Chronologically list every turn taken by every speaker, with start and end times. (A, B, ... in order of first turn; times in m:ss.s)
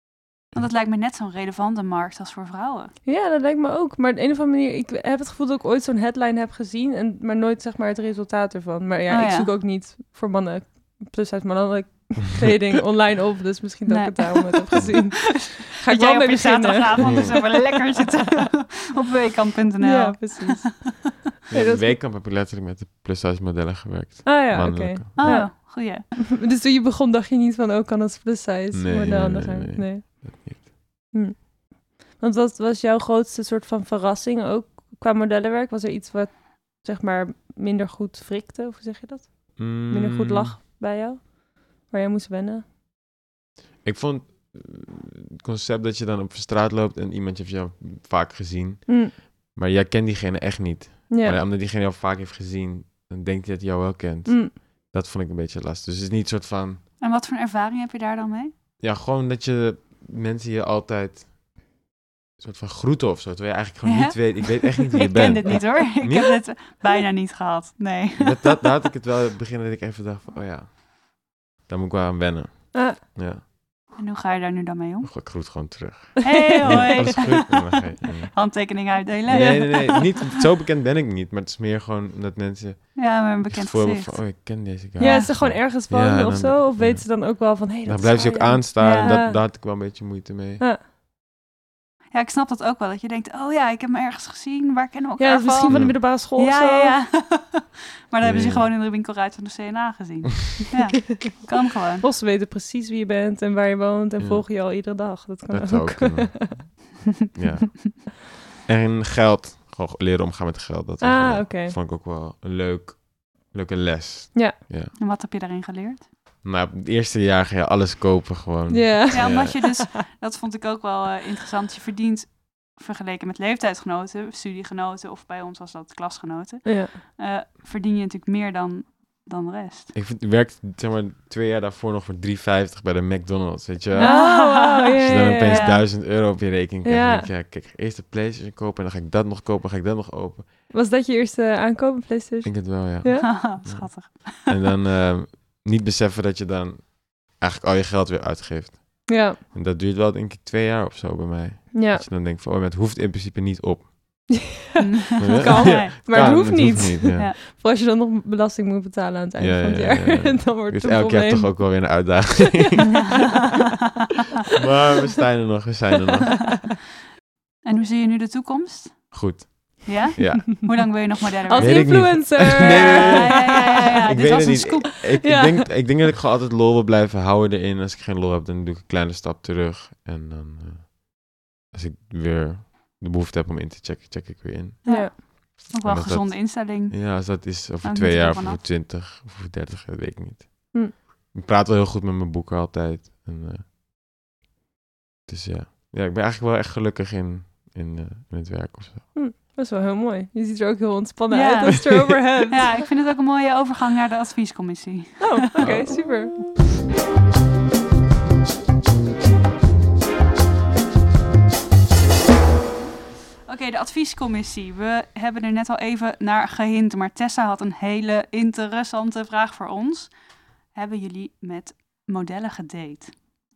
0:00.5-0:02.9 A
0:03.0-0:18.2 B
0:09.1-0:09.5 A
0:13.9-0:20.9 A
0:17.0-0:17.3 C
0:19.8-0:21.9 B
0:21.5-0:25.5 C
0:24.2-0:42.6 B
0:25.2-0:26.0 A
0:28.7-0:30.7 C
0:39.6-0:40.6 C
0:43.8-0:56.8 C
0:48.9-0:49.1 B
0:51.1-0:51.4 B
0:54.3-0:54.5 B
0:57.0-0:58.5 A
0:58.8-1:01.3 C
1:02.4-1:06.4 C
1:03.8-1:08.7 A
1:08.2-1:13.4 C
1:12.7-1:13.0 B
1:14.0-1:15.6 A
1:15.0-1:18.7 C
1:16.2-1:20.3 A
1:16.3-1:17.1 B
1:19.3-1:30.6 C
1:19.3-1:19.8 B
1:23.0-1:25.3 A
1:25.0-1:29.4 B
1:28.8-1:29.2 A
1:32.1-1:42.0 A
1:35.2-1:37.0 B
1:35.7-1:36.0 C
1:38.2-1:38.7 C
1:42.0-1:46.6 B
1:44.2-1:54.9 C
1:51.0-1:51.8 B
1:55.0-1:56.1 A
1:56.4-1:59.6 C
1:58.7-1:59.9 B
1:59.1-2:09.9 A
2:06.6-2:07.0 B
2:09.9-2:20.5 C
2:13.9-2:15.8 A
2:14.0-2:16.0 B
2:16.8-2:17.3 B
2:20.7-2:23.3 B
2:22.4-2:34.4 C
2:23.2-2:24.6 A
2:29.1-2:29.4 B
2:31.7-2:32.0 B
2:34.7-2:42.2 B
2:34.8-2:37.4 A
2:35.2-2:37.3 C
2:39.4-2:43.3 C
2:44.5-2:46.7 C
2:47.6-2:55.2 A
2:49.1-2:51.0 C
2:51.5-2:55.8 B
2:51.6-3:13.7 C
3:04.8-3:08.6 A
3:04.9-3:05.2 B
3:15.3-3:19.1 C
3:19.1-3:22.8 B
3:21.3-3:25.5 A
3:25.2-3:26.4 B
3:25.6-3:26.0 C
3:33.5-3:43.2 A